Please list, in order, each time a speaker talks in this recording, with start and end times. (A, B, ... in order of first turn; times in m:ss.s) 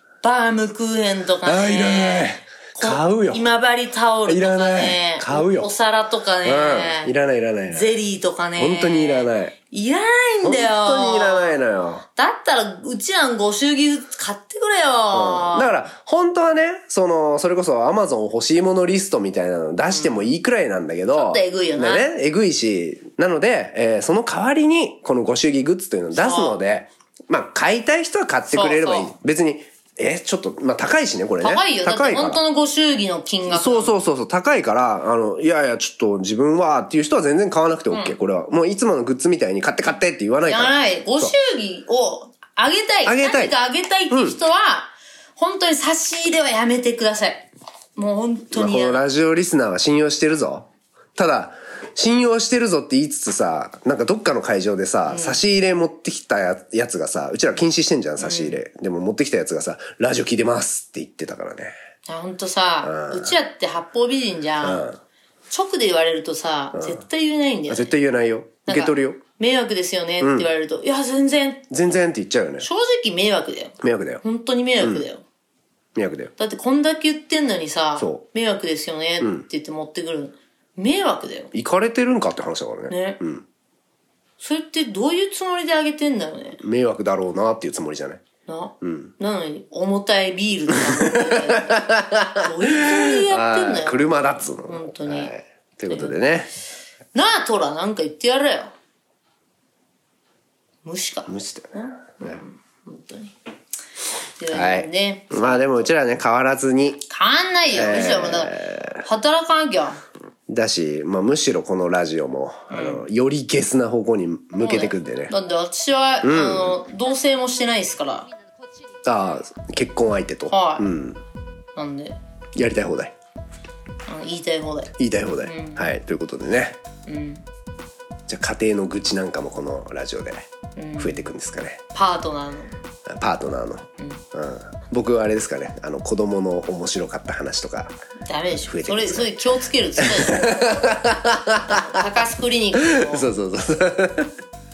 0:00.2-0:07.1 A
0:01.4-0:03.4 B
0:04.3-0:05.7 B
0:06.4-0:08.0 B
0:07.7-0:11.5 A
0:08.6-0:09.5 B
0:10.4-0:12.0 B
0:12.2-0:15.8 A
0:15.1-0:32.4 B
0:19.9-0:20.2 A
0:21.1-0:22.1 A
0:26.1-0:26.6 A
0:28.5-0:29.1 A
0:31.4-0:33.9 A
0:33.5-0:41.3 B
0:40.4-0:49.0 A
0:43.0-0:43.6 B
0:44.1-0:44.4 B
0:48.5-1:01.7 B
0:55.1-0:55.4 A
0:58.2-0:58.6 A
1:02.0-1:04.9 A
1:02.8-1:03.4 B
1:04.6-1:05.0 B
1:05.5-1:07.9 A
1:07.7-1:09.2 B
1:08.6-1:11.7 A
1:10.2-1:10.5 B
1:11.7-1:12.7 B
1:12.6-1:15.2 A
1:13.8-1:14.2 B
1:14.8-1:15.0 B
1:15.9-1:16.3 B
1:16.4-1:21.5 A
1:18.0-1:18.2 B
1:21.5-1:23.4 B
1:22.9-1:23.2 A
1:24.4-1:26.6 A
1:26.6-1:28.2 B
1:28.5-1:35.3 A
1:28.8-1:29.1 B
1:30.7-1:36.5 B
1:35.9-1:36.2 A
1:37.1-1:38.7 A
1:40.8-1:43.3 A
1:41.3-1:42.3 B
1:44.4-1:45.9 A
1:44.5-1:47.0 B
1:47.1-1:50.0 A
1:47.7-1:49.0 B
1:50.5-1:55.3 B
1:52.7-1:53.0 A
1:54.6-1:58.3 A
1:56.2-1:56.8 B
1:59.0-2:01.2 B
2:00.5-2:00.9 A
2:01.7-2:02.2 A
2:02.5-2:03.1 B
2:04.0-2:05.9 A
2:05.0-2:06.8 B
2:07.1-2:07.4 A
2:08.3-2:10.5 B
2:10.8-2:11.3 A
2:11.0-2:11.8 B
2:11.9-2:12.7 A
2:13.1-2:17.9 B
2:14.0-2:14.2 A
2:18.2-2:20.8 A
2:18.7-2:19.3 B
2:20.0-2:22.0 B
2:21.6-2:23.3 A
2:22.7-2:24.4 B